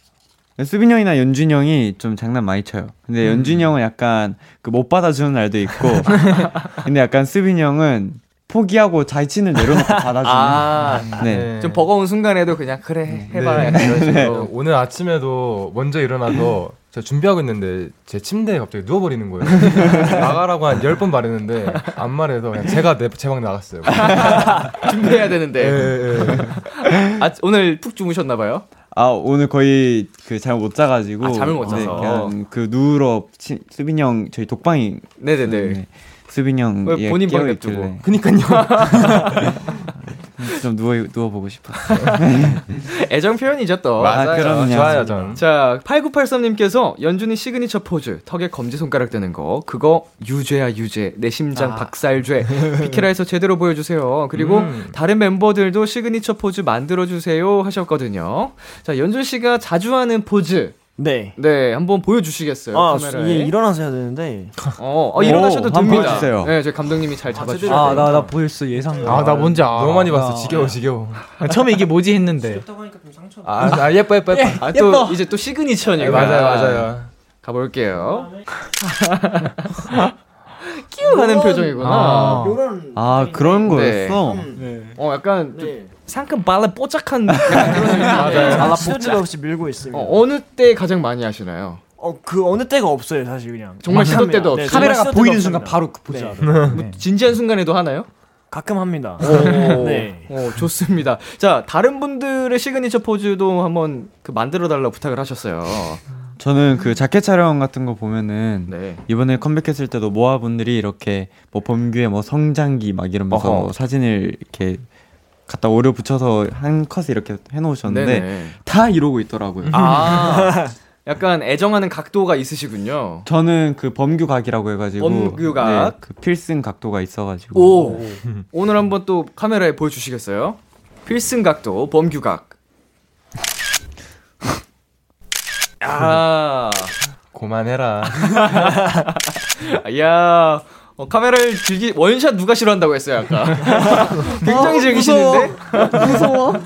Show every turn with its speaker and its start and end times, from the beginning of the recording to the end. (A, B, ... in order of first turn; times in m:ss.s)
0:00.6-0:11.5 A
0:10.2-0:14.5 B
0:11.2-0:11.8 C
0:13.1-0:14.4 A
0:13.3-0:24.6 C
0:19.7-0:20.2 A
0:24.1-0:28.6 B
0:25.6-0:26.6 C
0:28.9-0:38.1 A
0:31.2-0:32.3 B
0:35.2-0:35.8 B
0:36.8-0:38.0 B
0:38.0-0:39.3 C
0:38.5-0:39.8 B
0:39.4-0:39.8 A
0:40.4-0:42.8 A
0:42.0-1:00.8 B
0:44.0-0:45.4 C
0:44.0-0:45.2 A
0:51.5-0:51.9 D
0:54.3-0:55.0 C
1:01.0-1:01.4 E
1:01.4-1:03.5 B
1:02.7-1:04.6 E
1:04.8-1:08.3 B
1:05.2-1:06.6 A
1:05.3-1:06.3 E
1:07.3-1:08.4 E
1:07.7-1:10.8 D
1:09.0-1:09.3 E
1:09.0-1:10.1 F
1:09.5-1:11.4 C
1:11.4-1:12.6 F
1:12.3-1:13.8 E
1:13.4-1:14.7 C
1:14.3-1:15.2 D
1:14.6-1:20.1 B
1:16.0-1:17.1 C
1:18.0-1:18.5 E
1:20.6-1:22.6 B
1:21.0-1:24.9 E
1:21.8-1:22.6 F
1:22.9-1:24.5 A
1:23.6-1:24.2 B
1:25.0-1:29.2 B
1:25.5-1:25.9 E
1:27.5-1:30.2 E
1:27.8-1:28.8 C
1:29.9-1:31.8 B
1:32.0-1:36.8 E
1:33.8-1:35.0 B
1:34.6-1:37.0 D
1:36.4-1:36.8 C
1:36.7-1:38.1 B
1:38.5-1:40.3 E
1:39.2-1:46.0 B
1:46.4-1:54.8 A
1:48.7-1:49.0 B
1:53.3-1:53.7 B
1:55.5-1:59.8 A
1:57.8-1:58.6 B
1:59.6-2:00.2 C
1:59.7-2:03.3 B
1:59.8-2:00.7 E
2:03.2-2:08.0 A
2:05.0-2:06.0 B
2:07.5-2:12.5 B
2:07.8-2:08.0 E
2:15.8-2:16.9 B
2:17.3-2:18.4 C
2:18.2-2:26.3 B
2:24.6-2:25.0 A
2:25.0-2:25.4 D
2:25.9-2:26.4 E